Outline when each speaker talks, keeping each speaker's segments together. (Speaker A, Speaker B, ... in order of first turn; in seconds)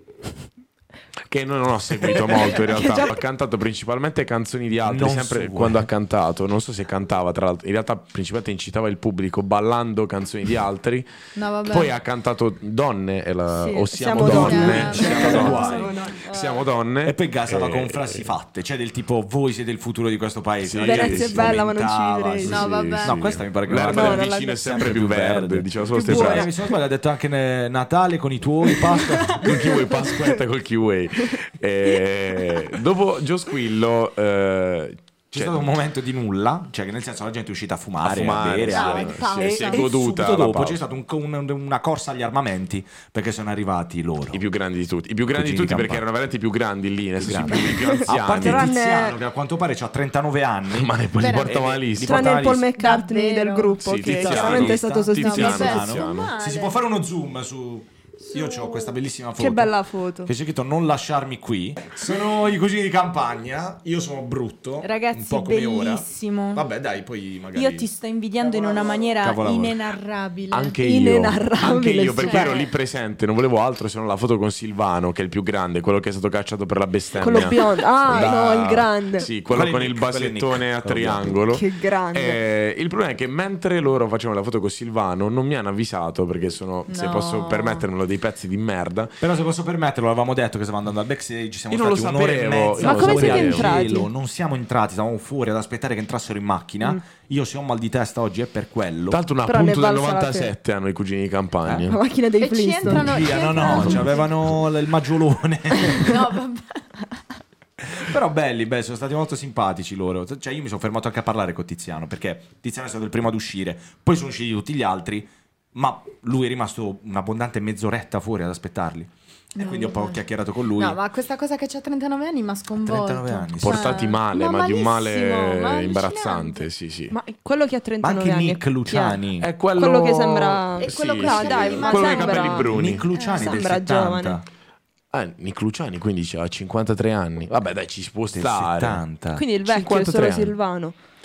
Speaker A: 1.3-11.1, 11.7-18.3, 20.6-21.5, 22.7-26.5, 29.4-35.7, 38.0-40.8, 44.3-48.7, 50.7-52.4, 53.8-56.3, 70.5-89.2, 91.7-93.8, 99.1-102.0, 123.6-127.2, 129.4-133.1, 135.1-139.0, 139.6-140.6
Speaker B: 2.0-3.0, 4.8-5.9, 14.7-15.9, 17.0-29.8, 35.3-44.4, 45.3-46.0, 47.2-52.7, 54.0-67.9, 68.6-69.8, 78.2-78.5, 79.5-81.4, 89.2-99.2, 102.8-106.2, 107.8-121.0, 122.8-124.0, 128.0-129.5, 132.7-134.5, 138.3-139.4
Speaker C: 2.6-3.1, 13.6-16.2, 20.8-22.7, 23.8-24.5, 25.9-26.5, 28.7-30.3, 47.7-49.2, 52.0-55.9, 59.4-60.3, 70.8-72.6, 77.2-79.3, 81.5-82.4, 92.8-94.1, 99.5-100.5, 101.8-104.1, 127.1-129.2, 129.7-132.7, 133.3-134.4, 139.3-140.9
Speaker D: 11.3-11.9, 14.2-16.7, 22.4-23.2, 38.7-39.9, 51.1-51.6, 52.8-53.8, 55.2-56.8, 58.2-59.0, 64.8-66.7, 67.5-70.8, 72.2-72.7, 86.9-87.8, 102.4-104.3, 106.0-107.1, 119.5-126.7, 130.8-133.6